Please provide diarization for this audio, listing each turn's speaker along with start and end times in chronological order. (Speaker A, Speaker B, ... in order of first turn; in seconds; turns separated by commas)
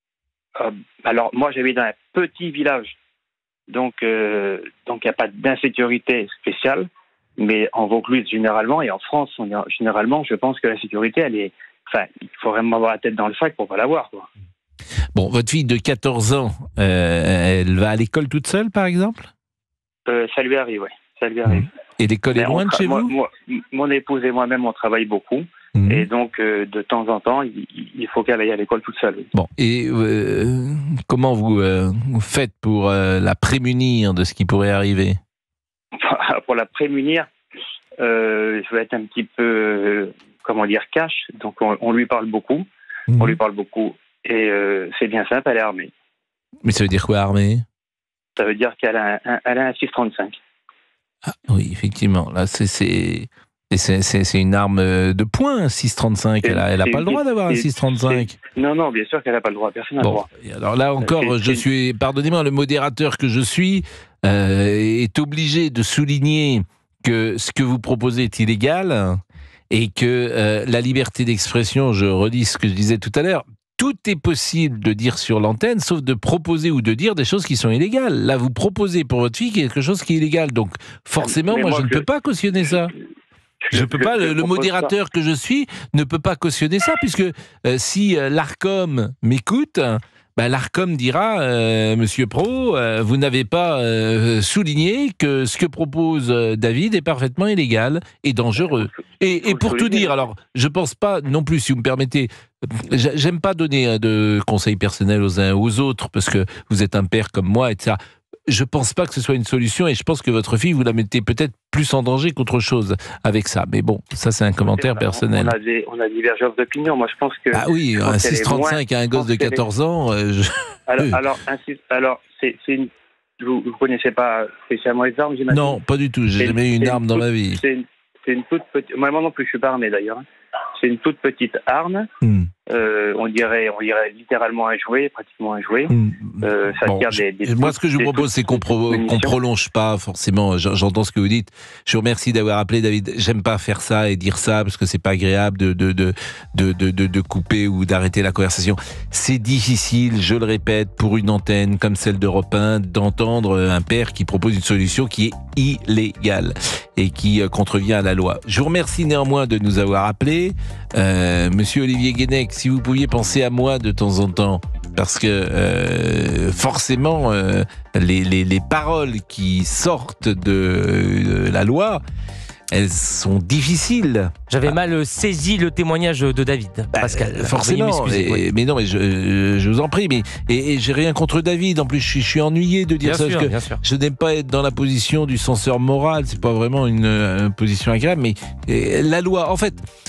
Speaker A: 0.6-3.0, Speaker A: 3.7-14.3, Speaker B: 15.1-19.3, Speaker A: 20.1-21.7, Speaker B: 21.5-23.1, Speaker A: 22.3-29.3, Speaker B: 25.7-26.1, Speaker B: 29.3-35.2, Speaker A: 36.0-37.3, Speaker A: 38.0-45.9, Speaker B: 43.1-43.4, Speaker B: 46.6-47.6, Speaker A: 48.4-50.4, Speaker B: 51.4-58.3, Speaker A: 56.4-60.3, Speaker B: 60.0-82.9, Speaker A: 61.0-61.6, Speaker A: 81.2-82.1, Speaker A: 83.6-84.9, Speaker B: 83.7-115.5, Speaker A: 98.5-100.2, Speaker A: 114.6-119.6, Speaker B: 117.5-121.2, Speaker A: 120.9-125.8, Speaker B: 125.5-127.6, Speaker A: 126.4-132.1, Speaker B: 132.2-132.5, Speaker A: 132.7-139.4, Speaker B: 135.9-172.0, Speaker B: 172.7-174.8, Speaker C: 174.5-178.4, Speaker B: 176.9-189.8, Speaker C: 183.0-183.8